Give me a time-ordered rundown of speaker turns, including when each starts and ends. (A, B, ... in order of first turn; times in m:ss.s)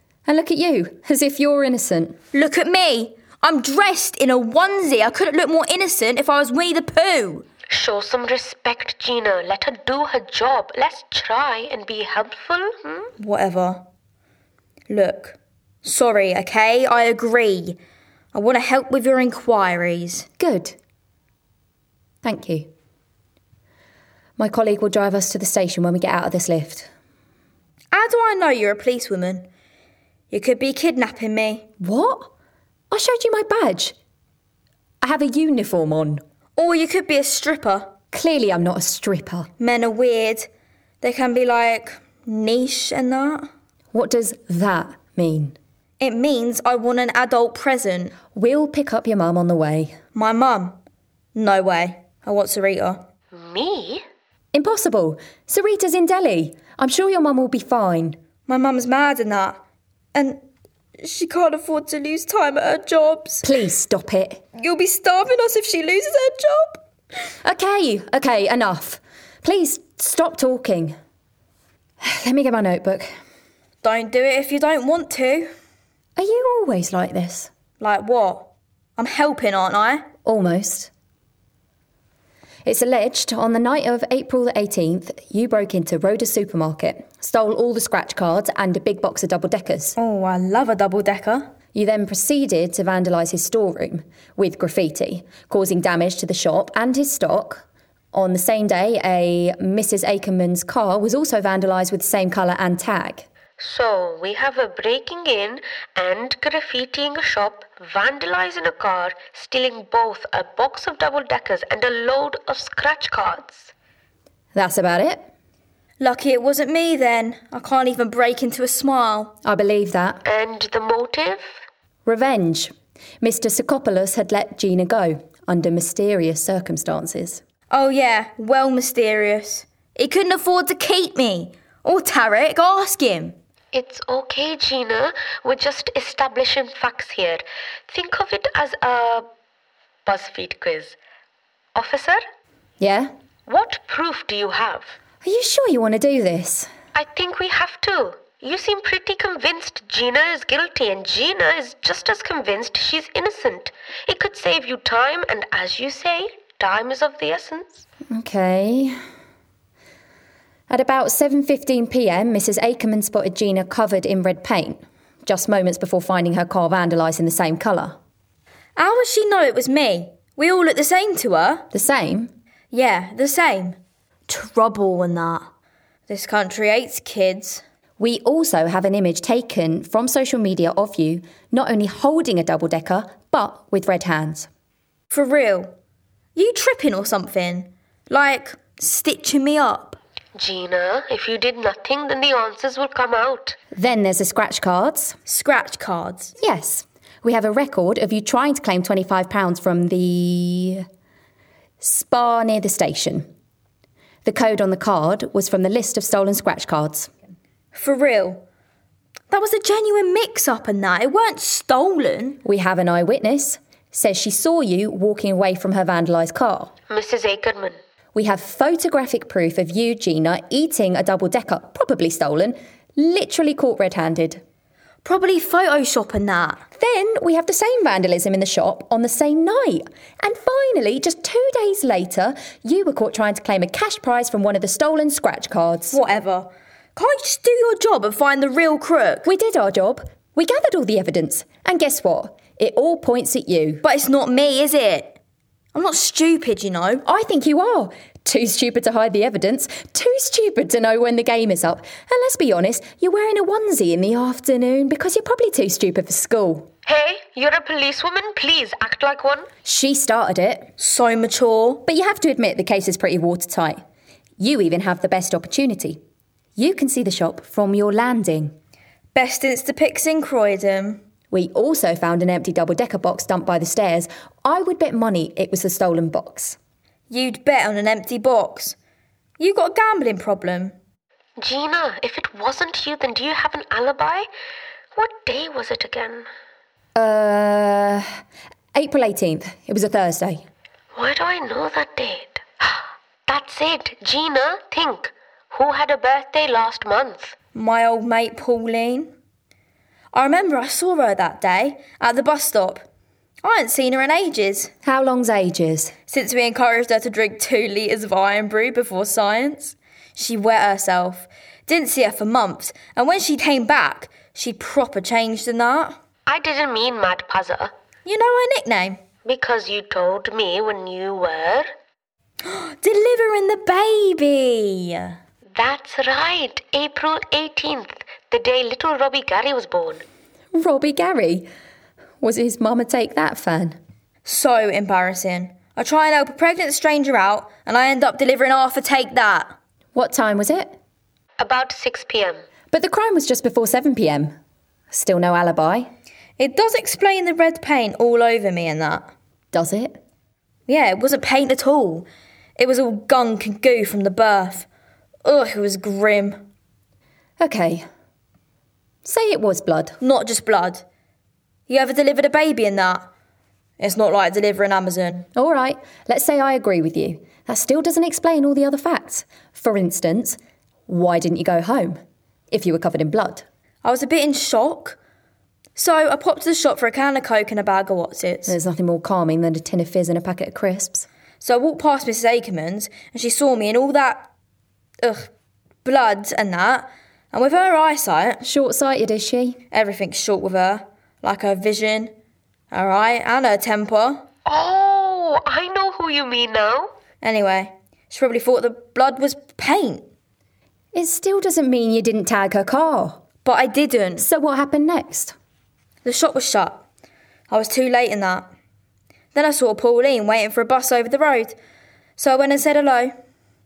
0:00.3-0:02.2 A
0:02.3-0:07.4 B
0:07.7-0:13.1 C
0:13.2-0:13.8 B
0:14.9-0:17.8 B
0:18.3-0:20.3 B
0:20.4-0:20.8 A
0:22.2-0:22.7 A
0:24.4-0:26.9 A
0:27.9-0:29.5 B
0:30.3-0:31.7 B
0:31.8-0:32.3 A
0:32.9-0:34.0 A
0:35.0-0:36.2 A
0:36.6-0:37.9 B
0:38.1-0:39.5 A
0:39.6-0:40.5 B
0:41.0-0:43.5 B
0:43.9-0:45.6 A
0:46.0-0:48.2 B
0:48.3-0:50.0 A
0:50.2-0:50.8 B
0:51.4-0:53.0 B
0:53.3-0:54.0 C
0:54.5-0:58.2 A
0:58.5-0:59.6 B
1:00.1-1:00.4 B
1:01.0-1:03.4 B
1:03.4-1:04.4 A
1:04.6-1:06.8 B
1:07.4-1:11.0 A
1:12.0-1:13.1 A
1:13.8-1:15.5 B
1:16.2-1:17.5 A
1:17.8-1:20.1 B
1:20.2-1:20.9 A
1:22.6-1:30.0 A
1:30.0-1:31.5 B
1:31.7-1:43.3 A
1:43.6-1:53.7 C
1:54.5-1:55.3 A
1:56.0-1:59.4 B
1:59.4-2:00.2 A
2:00.2-2:01.5 C
2:02.1-2:07.4 A
2:07.7-2:13.4 B
2:13.7-2:19.3 C
2:20.1-2:21.0 C
2:21.8-2:22.2 C
2:22.8-2:23.1 A
2:23.5-2:25.0 C
2:25.2-2:26.7 A
2:26.9-2:37.8 C
2:38.1-2:39.0 A
2:40.7-2:48.0 A
2:48.8-2:51.7 B
2:51.7-2:52.3 A
2:52.7-2:53.8 B
2:54.3-2:55.5 B
2:56.1-2:57.6 B
2:58.0-3:04.5 A
3:05.1-3:05.7 B
3:06.4-3:10.0 B
3:10.4-3:13.6 C
3:13.7-3:15.2 A
3:15.3-3:16.4 B
3:16.4-3:20.9 A
3:21.8-3:23.3 A
3:24.2-3:27.1 A
3:27.7-3:28.4 B
3:29.3-3:32.4 B
3:32.4-3:36.7 A
3:36.9-3:37.8 C
3:38.2-3:44.4 A
3:45.0-3:46.6 B
3:46.8-3:56.0 A
3:55.9-3:59.3 B
3:59.2-4:03.8 A
4:03.8-4:05.2 B
4:05.7-4:07.0 B
4:07.0-4:16.7 A
4:16.9-4:19.5 C
4:19.6-4:20.7 A
4:20.8-4:21.8 B
4:21.9-4:23.8 A
4:24.4-4:26.0 A
4:26.6-4:28.6 A
4:29.1-4:31.0 B
4:31.3-4:36.6 A
4:37.1-4:38.8 B
4:39.4-4:40.7 B
4:41.4-4:44.3 C
4:45.0-4:46.3 C
4:47.0-4:48.1 A
4:48.7-4:50.4 A
4:50.9-4:57.3 C
4:57.6-4:59.1 B
5:00.1-5:02.8 B
5:03.4-5:04.7 B
5:04.8-5:05.9 A
5:06.1-5:16.0 B
5:16.3-5:17.7 C
5:18.0-5:19.0 B
5:19.2-5:21.7 C
5:22.4-5:25.2 B
5:25.5-5:30.0 C
5:30.5-5:31.5 A
5:32.2-5:33.8 A
5:34.3-5:39.6 B
5:40.0-5:40.8 A
5:41.4-5:42.4 C
5:42.7-5:44.3 A
5:44.9-5:45.9 A
5:46.4-5:49.1 B
5:49.5-5:50.0 A
5:50.7-5:54.7 B
5:55.2-5:56.4 B
5:57.4-5:57.9 A
5:59.0-6:00.0 A
6:00.0-6:00.8 B
6:01.7-6:03.1 B
6:03.8-6:05.3 B
6:05.4-6:12.0 A
6:12.5-6:13.4 A
6:13.8-6:15.0 B
6:15.8-6:18.6 B
6:18.5-6:21.1 A
6:21.4-6:24.3 B
6:25.0-6:25.3 B
6:25.8-6:28.4 B
6:28.4-6:29.6 A
6:29.7-6:32.1 B
6:32.7-6:34.2 B
6:34.5-6:36.9 C
6:37.2-6:40.1 B
6:40.9-6:43.2 A
6:43.4-6:44.3 B
6:44.2-6:45.4 A
6:46.0-6:46.8 B
6:47.5-6:48.5 B
6:49.4-6:51.6 B
6:52.2-6:53.1 B